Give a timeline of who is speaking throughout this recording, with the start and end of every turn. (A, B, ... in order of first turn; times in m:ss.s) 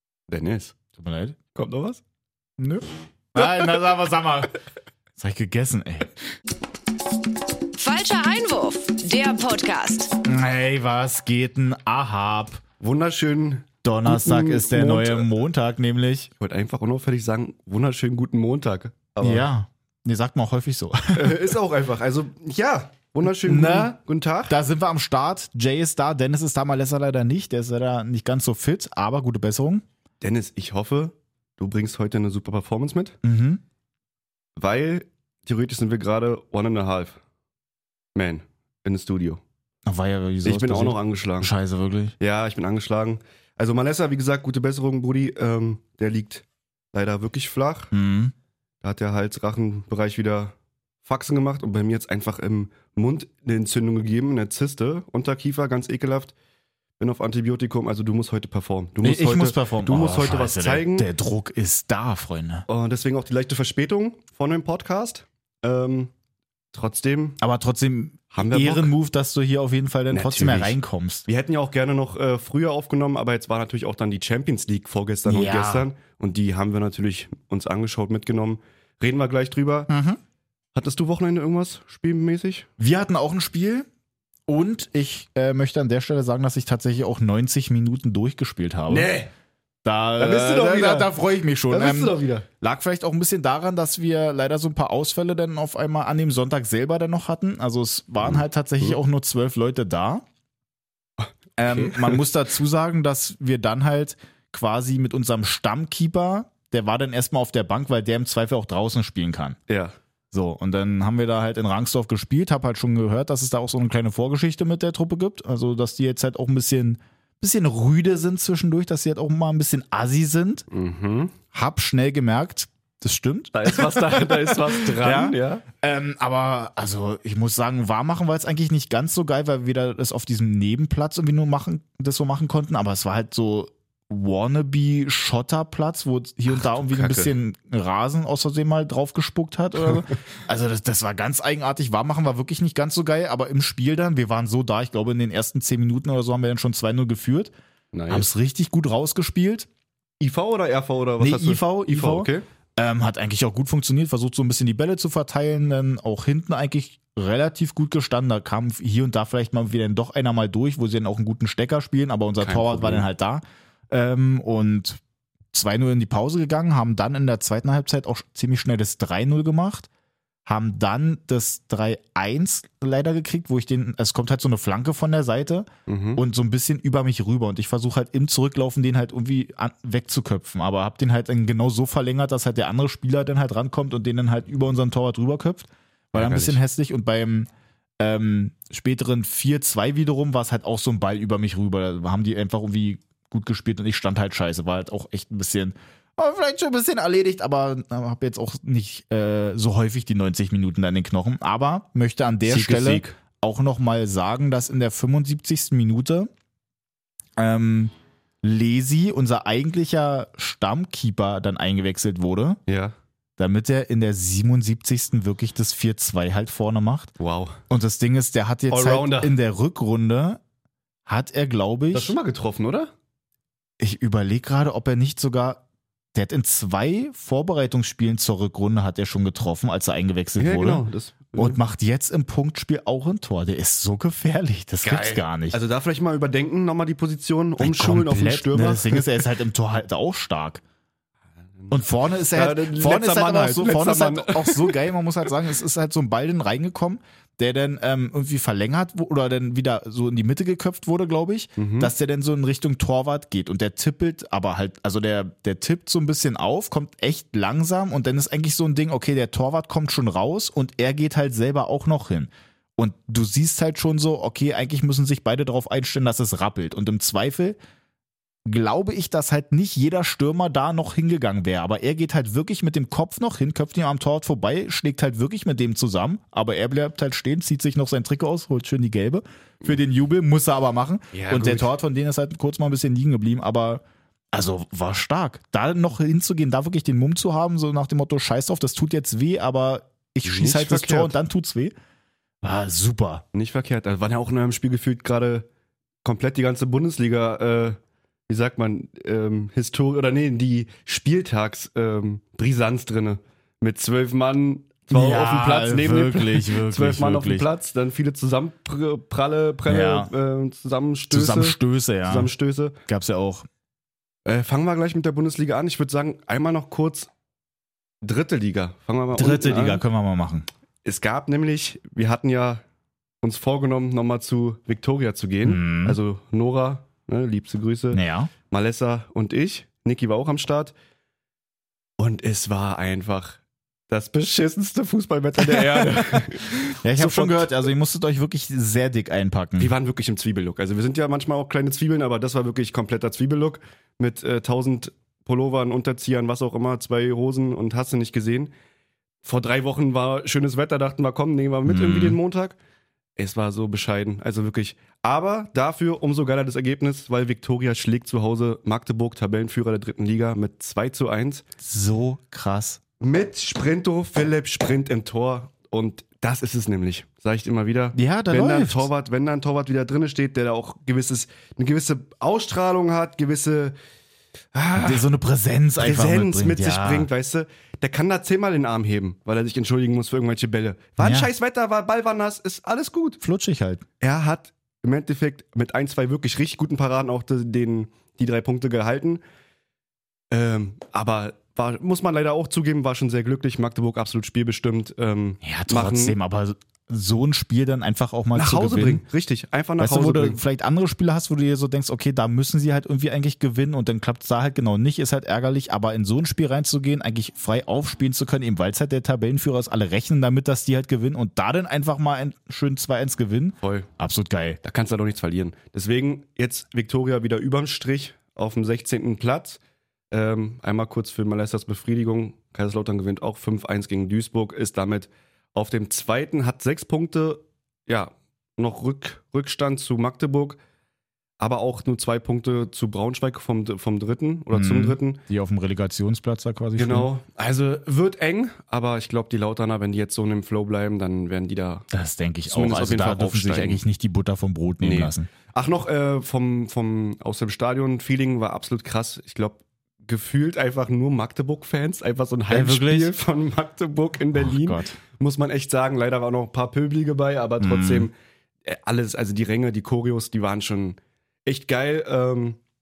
0:00.3-0:00.7 A
0:01.0-0:01.4 B
0:01.5-0:02.0 A
0:02.6-0:04.5 B
0:05.2-0:06.1 B
0:07.7-0:10.2 C
0:10.2-0:12.6 B
0:12.8-0:15.3 A
0:13.8-0:16.3 B
0:16.4-0:19.5 A
0:19.2-0:21.5 B
0:21.1-0:24.5 A
0:23.2-0:23.9 B
0:24.5-0:29.8 B
0:30.2-0:33.2 A
0:33.2-0:33.6 B
0:34.6-0:37.2 A
0:38.1-0:39.4 A
0:39.8-0:42.2 B
0:40.4-0:41.5 A
0:42.2-0:47.9 A
0:47.9-0:48.3 B
0:48.8-0:56.3 A
0:57.0-1:01.1 A
0:59.0-1:02.6 B
1:02.7-1:06.1 A
1:06.7-1:07.4 A
1:07.4-1:11.2 B
1:08.3-1:08.9 A
1:10.1-1:19.9 A
1:15.2-1:15.9 B
1:19.9-1:20.2 B
1:20.7-1:22.7 A
1:22.8-1:23.9 B
1:24.5-1:29.1 B
1:28.9-1:29.3 A
1:29.8-1:40.2 B
1:30.2-1:31.1 A
1:31.7-1:32.4 A
1:41.6-1:49.6 B
1:41.6-1:42.2 A
1:49.7-1:50.0 A
1:50.3-2:00.6 B
2:00.7-2:01.3 A
2:01.5-2:27.5 B
2:03.5-2:05.6 A
2:16.5-2:17.3 A
2:27.9-2:28.3 A
2:28.1-2:29.7 B
2:30.2-2:32.4 A
2:31.2-2:45.0 B
2:42.4-2:43.1 A
2:45.5-2:49.9 B
2:50.4-3:26.3 B
2:55.9-2:56.2 A
3:06.1-3:06.6 A
3:22.4-3:23.1 A
3:27.4-3:32.6 B
3:32.7-3:32.9 A
3:33.4-3:37.1 B
3:37.2-3:37.6 A
3:37.7-3:40.4 B
3:38.7-3:39.4 A
3:41.1-3:42.1 B
3:41.9-3:42.9 A
3:43.8-3:45.6 B
3:46.1-3:50.8 B
3:50.4-3:51.6 A
3:51.4-3:55.6 B
3:54.8-3:59.2 A
3:57.6-4:00.6 B
4:01.7-4:27.6 B
4:02.3-4:04.8 A
4:11.6-4:11.9 A
4:28.4-4:51.7 B
4:41.1-4:41.7 A
4:50.2-4:51.1 A
4:52.4-4:53.2 B
4:53.3-4:55.4 A
4:56.0-5:12.8 A
5:04.9-5:07.5 B
5:09.7-5:10.1 B
5:11.1-5:12.3 B
5:12.9-5:13.5 B
5:14.2-5:17.1 A
5:18.0-5:19.8 A
5:19.1-5:20.5 B
5:20.8-5:22.6 A
5:23.2-5:30.7 A
5:25.4-5:26.0 B
5:27.9-5:28.3 B
5:32.0-5:37.7 A
5:35.5-5:36.2 B
5:36.8-5:39.7 B
5:39.6-5:48.5 A
5:49.2-5:52.6 A
5:51.6-5:52.2 B
5:53.2-6:01.4 A
6:01.6-6:02.8 B
6:03.0-6:13.7 A
6:07.9-6:08.9 B
6:14.5-6:15.1 A
6:14.8-6:17.1 B
6:15.8-6:23.2 A
6:21.0-6:21.3 B
6:23.2-6:23.8 B
6:24.0-6:29.2 A
6:30.3-6:36.2 A
6:35.4-6:39.0 B
6:38.3-6:40.4 A
6:39.8-6:54.6 B
6:53.6-6:53.9 A
6:54.6-6:59.6 A
7:00.1-7:10.6 A
7:11.4-7:15.2 A
7:14.5-7:17.1 B
7:16.8-7:21.8 A
7:21.9-7:25.3 B
7:22.5-7:23.8 A
7:24.8-7:38.1 A
7:32.5-7:33.1 B
7:34.3-7:35.0 B
7:37.6-7:38.1 B
7:38.6-7:42.6 A